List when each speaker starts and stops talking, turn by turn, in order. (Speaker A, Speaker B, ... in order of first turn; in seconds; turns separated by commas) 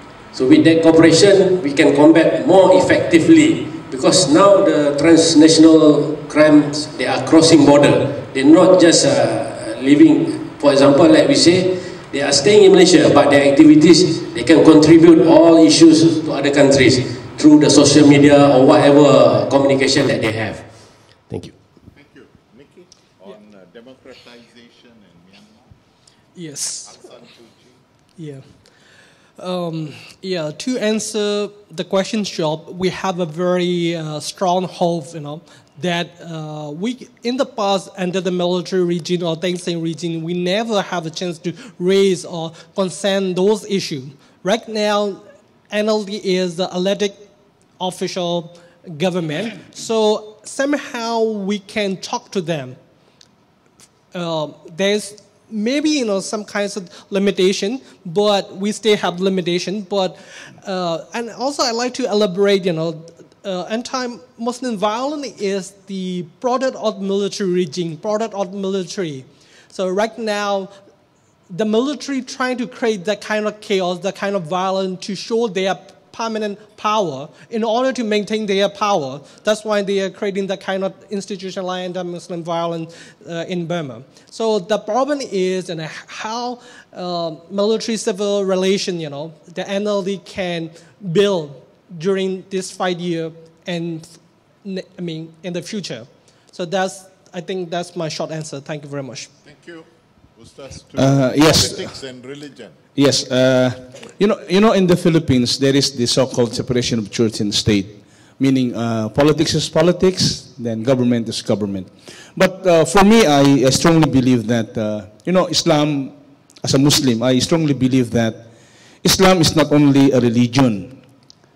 Speaker A: 0.3-20.7, Speaker A: 21.3-21.6, Speaker B: 21.9-25.7, Speaker C: 26.4-27.0, Speaker B: 26.9-27.8, Speaker C: 28.2-28.4, Speaker C: 29.4-47.2, Speaker C: 47.8-52.8, Speaker C: 54.1-70.7, Speaker C: 71.5-99.3, Speaker B: 99.4-102.8, Speaker D: 101.0-101.9, Speaker D: 103.0-118.5, Speaker D: 119.0-121.0